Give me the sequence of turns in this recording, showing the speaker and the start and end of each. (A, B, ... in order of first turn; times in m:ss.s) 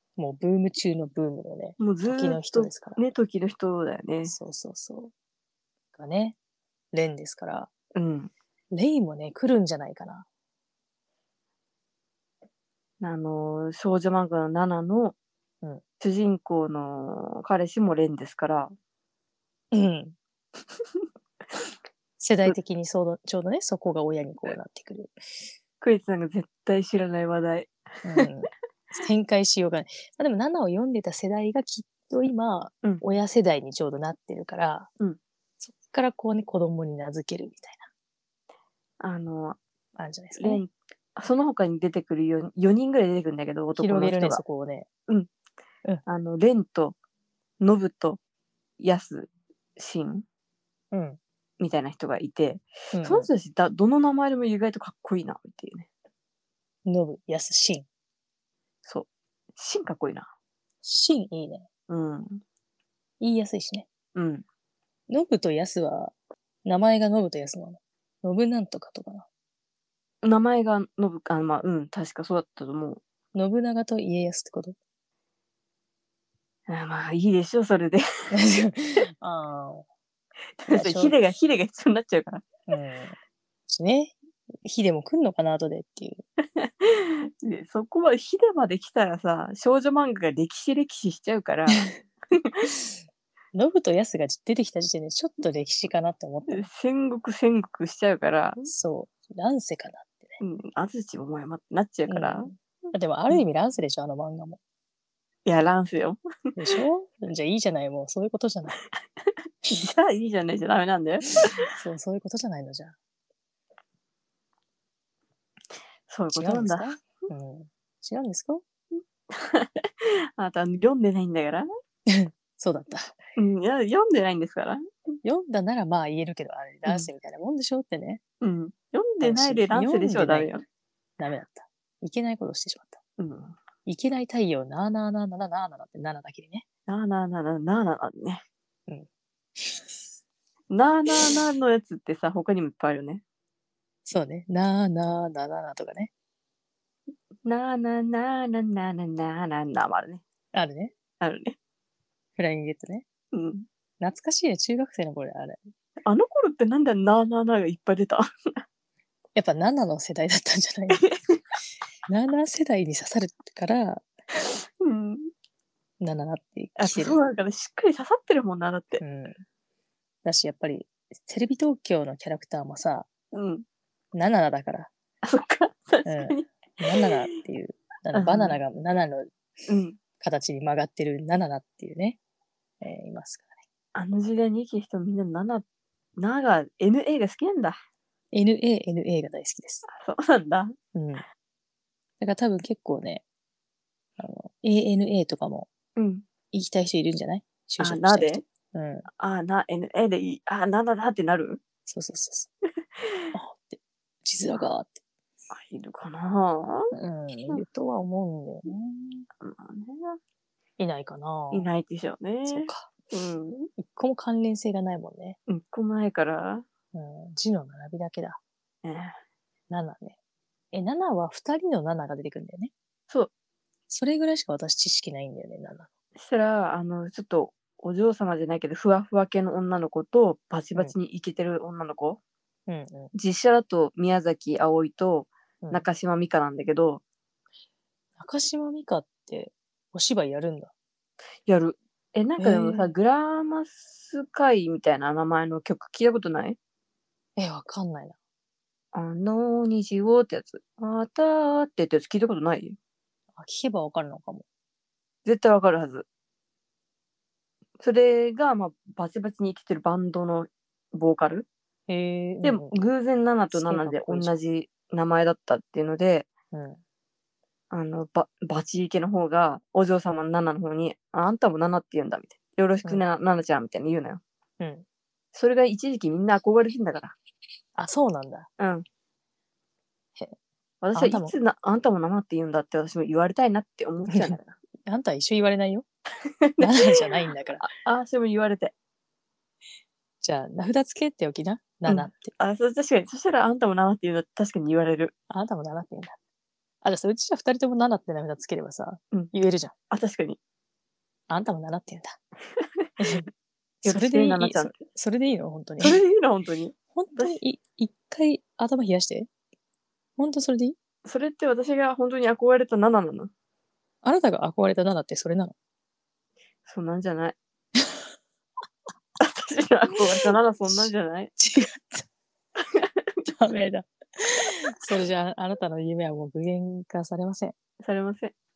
0:00.2-0:03.0 A
0:01.8-0:04.3 B
0:04.2-0:05.1 A
0:05.9-0:06.4 A
0:06.9-0:07.7 A
0:07.9-0:08.3 B
0:08.7-0:10.2 A
0:13.0-0:15.1 B
0:16.0-0:18.7 B
0:19.7-0:20.2 A
0:22.2-0:25.2 A
0:25.8-0:28.3 B
0:28.0-0:34.9 A
0:35.6-0:37.9 A
0:39.0-0:39.6 B
0:40.0-0:40.6 A
0:40.4-0:44.4 B
0:43.8-0:44.9 A
0:46.1-0:47.0 B
0:47.6-0:48.2 B
0:48.8-0:50.2 B
0:50.9-0:51.2 A
0:51.6-0:55.9 B
0:52.9-0:53.3 A
0:56.8-0:57.9 A
0:58.8-1:00.3 B
1:00.8-1:01.7 A
1:01.9-1:02.4 B
1:03.2-1:03.9 A
1:04.1-1:04.4 B
1:05.1-1:09.3 A
1:10.2-1:13.0 B
1:13.3-1:14.8 A
1:16.7-1:18.0 B
1:18.3-1:19.8 A
1:20.6-1:22.5 B
1:20.7-1:21.2 A
1:22.7-1:23.2 A
1:23.7-1:26.2 A
1:26.6-1:32.7 B
1:32.7-1:33.0 A
1:33.5-1:36.7 A
1:36.5-1:38.7 B
1:38.6-1:40.4 A
1:40.4-1:43.4 B
1:42.1-1:44.6 A
1:45.4-1:46.2 B
1:46.6-1:48.8 A
1:49.7-1:51.6 B
1:51.6-1:53.0 A
1:56.1-1:56.9 B
1:56.3-1:58.6 A
1:59.3-2:01.7 B
2:02.1-2:03.2 A
2:03.4-2:04.8 B
2:05.2-2:08.2 A
2:08.4-2:10.6 B
2:09.2-2:10.5 A
2:11.2-2:13.0 A
2:13.2-2:13.6 B
2:13.8-2:16.6 A
2:16.9-2:18.4 B
2:19.6-2:19.9 A
2:20.7-2:23.2 B
2:24.0-2:26.1 A
2:27.4-2:30.2 B
2:30.5-2:30.9 A
2:31.2-2:31.6 B
2:32.4-2:33.0 A
2:33.3-2:33.6 B
2:34.0-2:35.7 A
2:36.0-2:38.2 B
2:39.3-2:41.0 A
2:40.9-2:41.4 B
2:42.1-2:44.1 A
2:44.4-2:45.3 B
2:46.0-2:47.2 A
2:46.8-2:49.0 B
2:49.0-2:49.4 A
2:50.2-2:53.1 A
2:53.3-2:53.6 B
2:54.1-2:54.9 A
2:55.2-2:57.1 B
2:56.0-2:59.3 A
2:58.1-2:58.6 B
2:59.7-3:00.0 B
3:00.2-3:02.2 A
3:02.8-3:03.6 A
3:03.9-3:05.6 B
3:06.2-3:07.8 B
3:08.3-3:09.9 A
3:09.9-3:10.7 B
3:10.9-3:11.2 A
3:12.2-3:13.2 A
3:14.2-3:15.7 A
3:16.0-3:16.2 B
3:16.5-3:19.1 A
3:17.8-3:18.4 B
3:19.2-3:21.6 B
3:21.9-3:22.5 A
3:23.0-3:23.3 B
3:23.3-3:25.0 A
3:25.5-3:26.9 B
3:26.9-3:29.3 A
3:29.4-3:30.2 B
3:30.8-3:31.7 A
3:31.5-3:33.7 B
3:32.4-3:32.9 A
3:33.8-3:35.4 A
3:35.5-3:36.6 B
3:36.9-3:38.4 A
3:38.8-3:39.1 B
3:39.7-3:40.2 A
3:40.7-3:42.7 A
3:43.9-3:45.9 A
3:46.2-3:52.2 B
3:52.7-3:53.1 A
3:53.1-3:57.0 B
3:58.2-4:00.7 A
4:01.4-4:06.6 B
4:02.4-4:02.9 A
4:07.4-4:08.2 A
4:08.9-4:12.8 B
4:13.4-4:14.4 A
4:15.2-4:16.0 B
4:17.8-4:21.5 B
4:21.9-4:22.7 A
4:22.4-4:26.3 B
4:23.5-4:24.4 A
4:26.5-4:26.8 A
4:27.7-4:34.2 B
4:34.6-4:34.8 A
4:35.3-4:37.2 B
4:37.8-4:38.5 A
4:38.6-4:38.8 B
4:40.8-4:44.6 B
4:40.9-4:41.3 A
4:44.1-4:45.9 A
4:46.2-4:47.0 B
4:46.6-4:47.6 A
4:47.6-4:48.7 B
4:50.2-4:52.3 A
4:51.9-4:55.1 B
4:55.3-4:56.2 A
4:56.8-4:59.7 A
4:59.9-5:00.4 B
5:01.3-5:02.2 A
5:02.6-5:02.9 B
5:03.0-5:03.3 A
5:03.8-5:04.7 B
5:03.8-5:06.0 A
5:05.8-5:07.4 B
5:06.9-5:09.3 A
5:10.2-5:10.8 A
5:11.0-5:13.3 B
5:14.0-5:15.5 A
5:16.6-5:17.4 B
5:19.2-5:21.3 B
5:20.7-5:22.0 A
5:22.6-5:23.2 B
5:23.2-5:27.5 A
5:27.8-5:28.3 B